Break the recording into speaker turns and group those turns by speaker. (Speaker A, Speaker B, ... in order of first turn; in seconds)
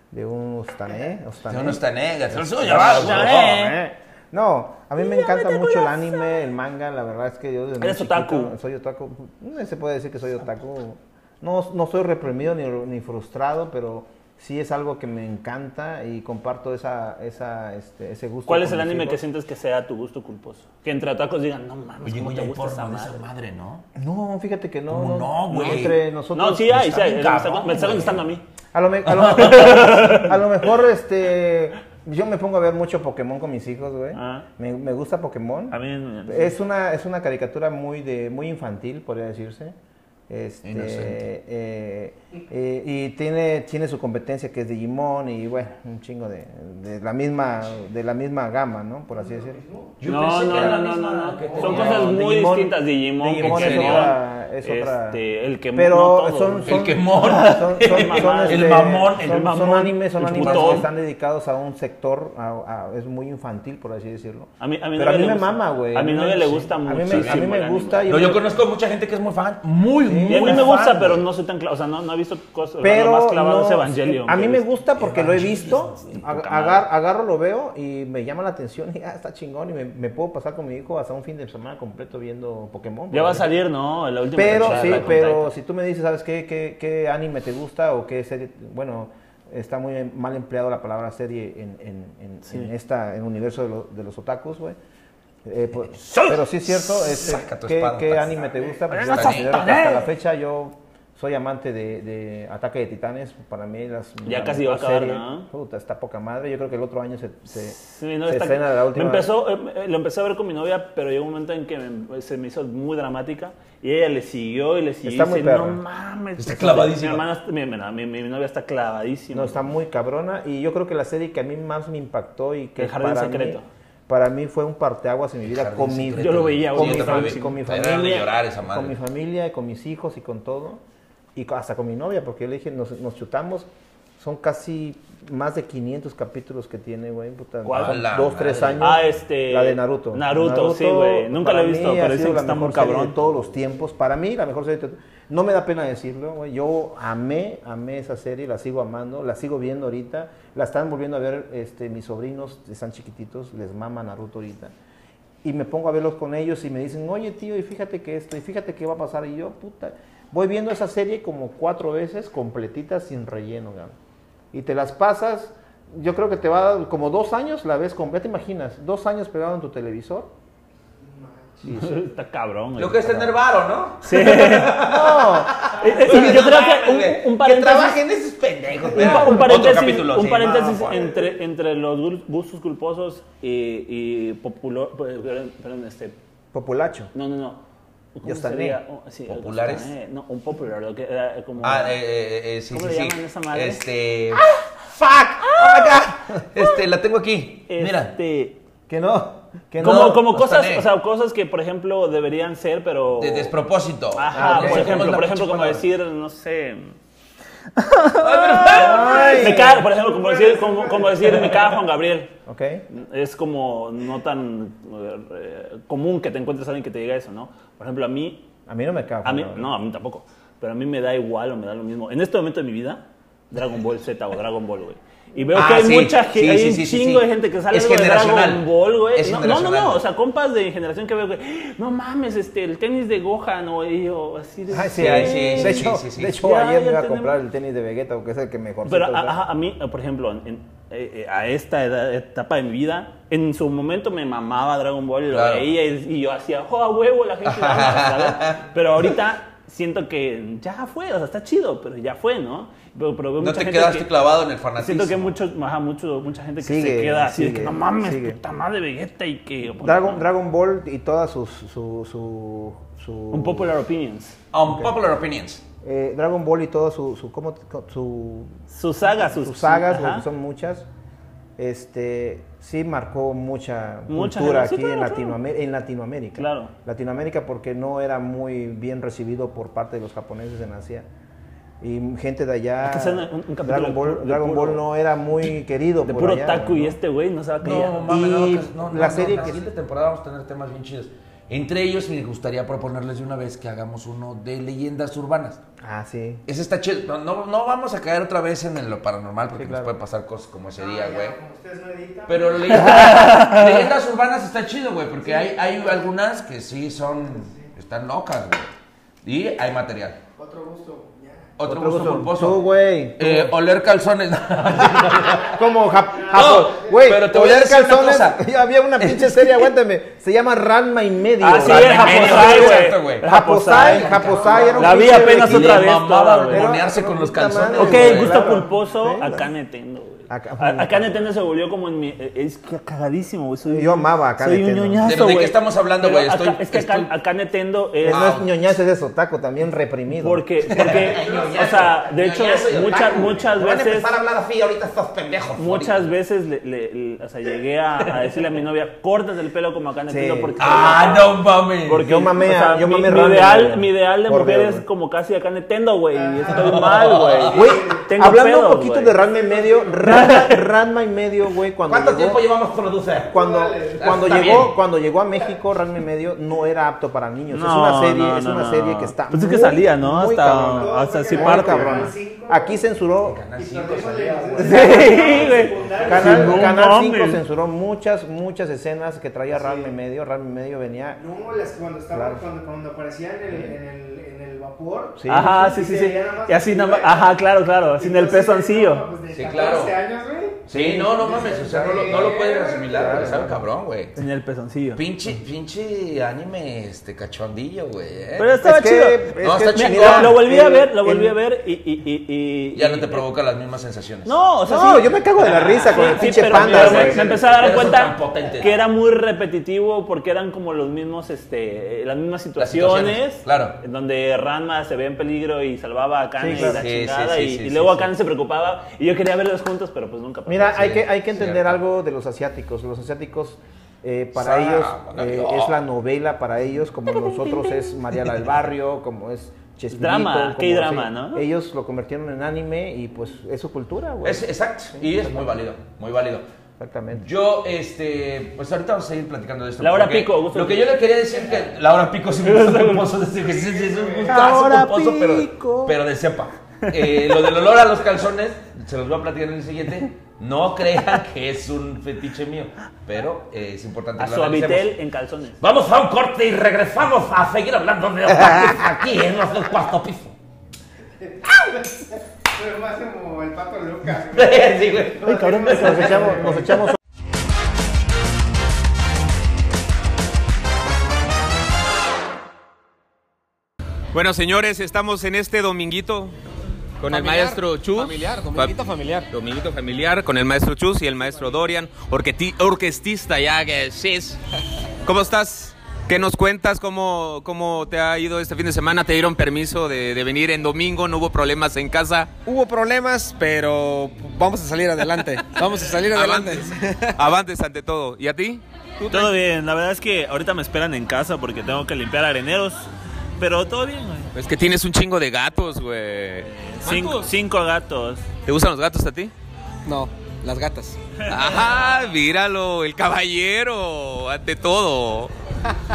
Speaker A: 0.1-19.2, 23.9-26.9, 28.7-39.7, 40.3-49.6, 51.5-55.2, 55.7-68.5, 70.0-70.7, 72.8-83.5, 84.3-94.8, 95.4-109.3, 115.0-115.8, 119.3-130.8, 131.3-154.7, 155.4-163.9, 164.5-170.3, 174.7-175.6, 178.8-179.7, 186.5-187.1, 188.2-188.8, 198.9-200.2, 204.3-205.1, 208.7-209.9, 212.5-212.8, 218.7-219.7, 234.7-239.5, 256.6-258.4, 259.8-263.7, 264.6-264.9, 265.8-268.6, 269.1-270.9, 271.6-281.1, 281.8-287.0, 288.1-289.7, 295.8-296.4, 299.5-299.9, 311.6-313.5, 315.4-325.9, 326.5-329.5, 330.3-331.1, 333.6-335.1, 338.0-340.5, 350.1-350.6, 352.0-354.8, 357.5-362.5, 363.3-373.4, 374.8-375.1, 376.0-381.2, 382.1-382.4, 385.1-385.6, 390.7-391.3, 392.9-393.6, 398.5-401.4, 404.7-407.4, 416.4-416.8, 420.5-435.6, 436.8-437.3, 444.3-445.9, 465.7-466.9
Speaker B: 1.5-3.7, 22.0-23.9, 24.9-26.0, 26.7-28.2, 29.2-29.5, 40.6-41.2, 50.0-52.1, 53.2-54.1, 56.6-59.7, 60.3-60.9, 67.0-67.4, 68.1-71.2, 75.0-76.2, 84.6-85.1, 96.9-99.7, 116.4-117.2, 125.5-128.9, 137.7-139.0, 172.8-181.1, 189.3-189.9, 191.6-198.1, 199.8-200.9, 203.2-205.8, 208.2-209.4, 225.5-230.0, 234.9-236.4, 245.3-245.7, 247.4-249.1, 253.4-255.3, 264.5-265.6, 287.6-295.6, 296.5-301.4, 302.3-308.7, 309.2-310.2, 311.6-312.6, 313.2-315.6, 316.3-318.4, 319.0-319.5, 321.6-323.2, 323.8-328.6, 335.0-337.1, 338.1-338.5, 340.7-346.1, 350.6-352.0, 356.5-357.7, 361.9-363.4, 363.9-364.7, 373.2-375.7, 389.3-390.0, 390.6-394.1, 394.9-398.5, 399.4-400.4, 402.7-404.4, 405.6-408.8, 412.6-413.8, 416.5-418.1, 421.3-421.8, 424.3-425.8, 434.2-436.4, 437.1-455.0, 455.6-460.4, 464.3-466.1
Speaker C: 2.6-3.8, 5.0-6.2, 7.8-8.5, 18.4-23.2, 26.3-28.4, 29.4-30.3, 34.1-34.4, 35.7-36.5, 50.0-60.9, 64.6-68.1, 70.3-74.7, 76.1-76.8, 83.1-85.5, 92.4-92.7, 96.0-96.4, 98.9-100.1, 104.2-105.5, 107.5-119.6, 122.8-123.6, 126.2-128.2, 137.6-138.0, 138.8-143.2, 171.7-173.3, 174.0-174.7, 175.8-178.0, 178.9-186.2, 187.1-187.6, 188.1-192.0, 192.7-193.8, 197.7-198.6, 199.8-203.5, 204.1-206.9, 207.8-212.3, 212.9-218.5, 219.2-237.4, 238.8-254.1, 254.8-260.2, 263.3-264.4, 268.7-270.2, 274.1-275.4, 276.4-276.7, 282.8-284.8, 286.0-288.1, 302.9-303.6, 321.4-326.7, 327.8-338.3, 340.1-344.1, 345.6-359.1, 360.1-360.6, 367.5-372.1, 374.6-377.4, 385.3-389.0, 394.1-395.0, 398.4-403.2, 404.2-421.1, 427.1-427.9, 429.9-431.4, 439.8-441.0, 442.4-443.1, 454.2-455.6, 465.3-466.0, 499.1-504.3, 506.5-508.2
Speaker D: 49.2-49.9, 171.0-171.8, 209.8-211.5, 300.8-302.9, 305.2-306.1, 307.3-307.7, 310.4-311.6, 316.3-316.7, 324.3-324.9, 341.2-341.5, 356.1-357.0, 357.5-358.1, 359.1-360.3, 363.3-364.6, 370.7-372.8, 373.6-376.7, 379.5-379.9, 381.1-387.4, 387.9-393.3, 443.5-444.4, 461.2-466.8
Speaker E: 474.1-476.3, 477.0-478.7, 479.3-484.4, 485.0-492.3, 496.1-499.3, 504.3-507.3, 508.4-509.3, 511.2-515.3
Speaker F: 477.1-479.3, 492.4-497.2, 509.8-511.0